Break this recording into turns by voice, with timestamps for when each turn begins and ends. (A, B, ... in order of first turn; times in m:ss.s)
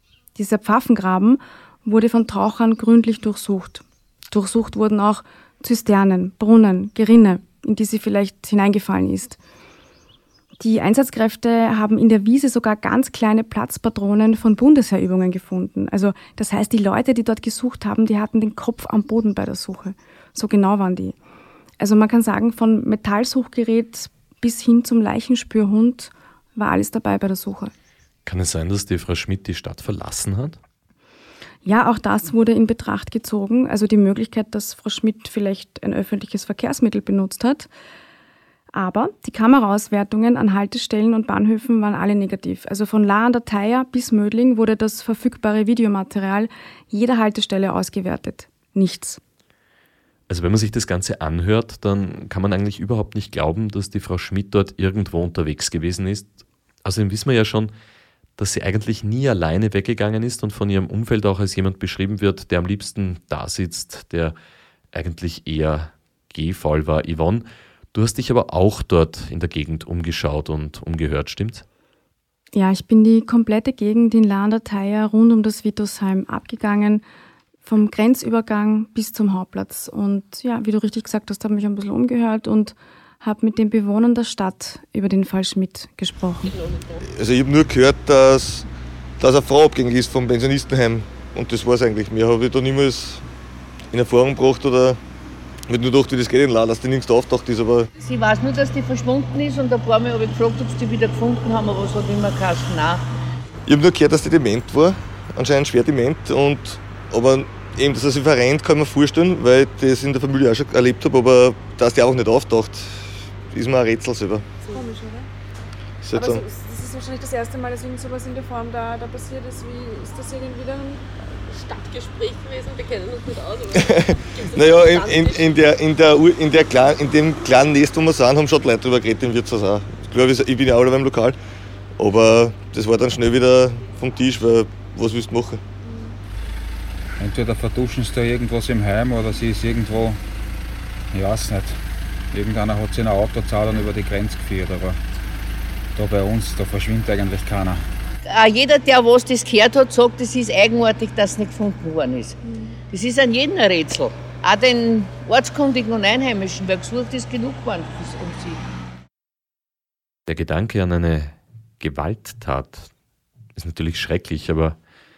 0:00.4-0:09.4 A
0:10.6-0:21.1 A
0:21.8-0:27.7 A
0:28.2-0:30.6 B
0:31.6-0:37.7 A
0:38.7-0:49.2 A
0:50.3-0:57.7 B
0:58.4-1:04.4 B
1:04.9-1:11.6 B
1:12.5-1:17.0 A
1:17.6-1:26.6 A
1:27.0-1:28.7 C
1:29.2-1:33.2 C
1:33.9-1:35.0 C
1:35.7-1:37.9 C
1:38.0-1:43.0 D
1:43.6-1:54.8 C
1:54.6-1:55.3 E
1:56.0-1:56.4 C
1:56.1-2:05.6 E
2:03.7-2:11.4 C
2:12.0-2:15.6 C
2:15.8-2:16.2 E
2:17.2-2:20.2 F
2:21.1-2:21.8 F
2:22.3-2:25.0 F
2:25.9-2:27.8 F
2:28.2-2:32.4 D
2:32.9-2:38.6 D
2:40.3-2:42.9 B
2:43.5-2:44.8 B